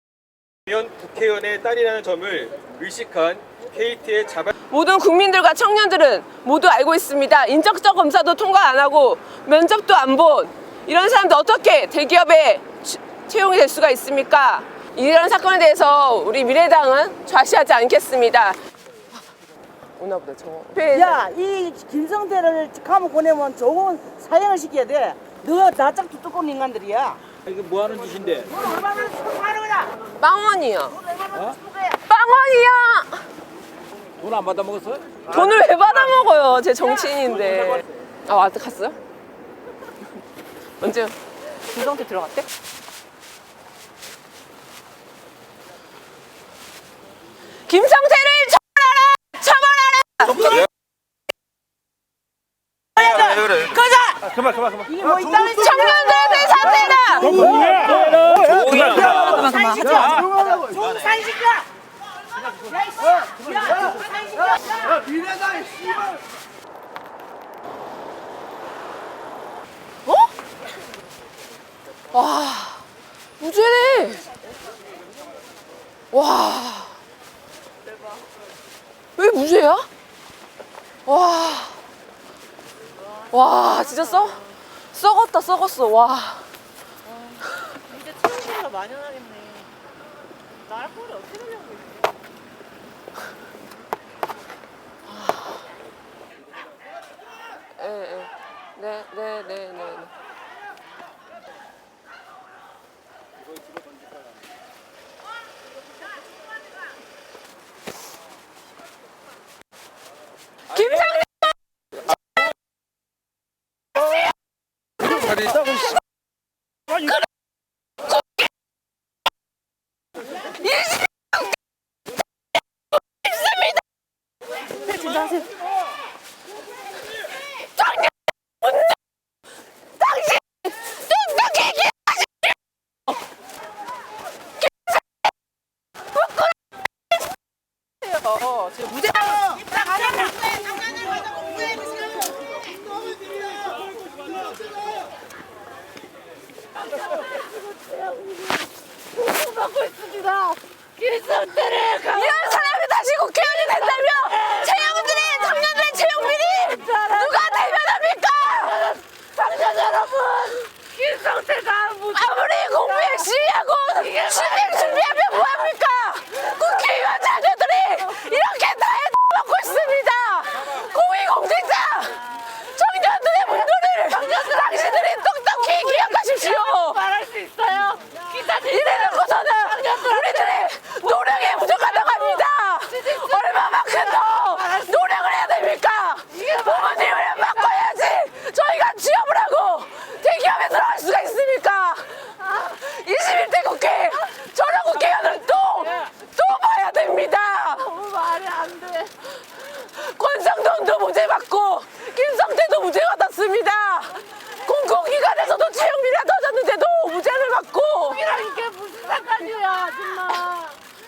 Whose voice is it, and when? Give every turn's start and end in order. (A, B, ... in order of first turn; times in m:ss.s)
0:00.7-0:04.5 A
0:04.6-0:18.6 B
0:20.0-0:21.2 B
0:20.9-0:27.2 C
0:27.5-0:28.5 D
0:28.5-0:30.0 C
0:30.2-0:31.0 B
0:31.0-0:31.8 C
0:32.0-0:33.2 B
0:34.2-0:35.1 D
0:35.2-0:39.0 B
0:40.8-0:41.2 B
0:41.7-0:42.4 B
0:47.6-0:50.7 B
0:53.0-0:53.7 C
0:54.8-0:56.3 C
0:55.5-0:57.7 B
0:57.1-1:01.7 C
0:57.7-1:00.2 D
1:02.5-1:04.1 C
1:04.9-1:05.8 C
1:10.0-1:10.3 B
1:12.1-1:12.8 B
1:13.4-1:14.2 B
1:16.1-1:17.0 B
1:19.2-1:19.9 B
1:21.0-1:21.8 B
1:23.3-1:24.4 B
1:24.9-1:26.5 B
1:27.9-1:29.7 E
1:30.7-1:32.1 E
1:37.7-1:40.1 B
1:50.7-1:51.5 B
2:00.6-2:01.4 B
2:03.1-2:03.8 B
2:04.9-2:05.4 B
2:07.8-2:08.9 B
2:10.0-2:12.3 B
2:18.1-2:19.2 B
2:27.8-2:28.6 E
2:29.2-2:32.4 E
2:32.1-2:38.8 B
2:38.7-2:42.1 E
2:42.1-2:57.0 B
2:44.0-2:45.0 E
2:54.3-2:54.6 E
2:56.0-2:59.1 E
2:58.5-3:18.0 B
2:59.6-3:00.1 E
3:03.2-3:04.7 E
3:06.5-3:07.3 E
3:17.9-3:19.1 E
3:19.5-3:28.2 B
3:28.2-3:30.8 E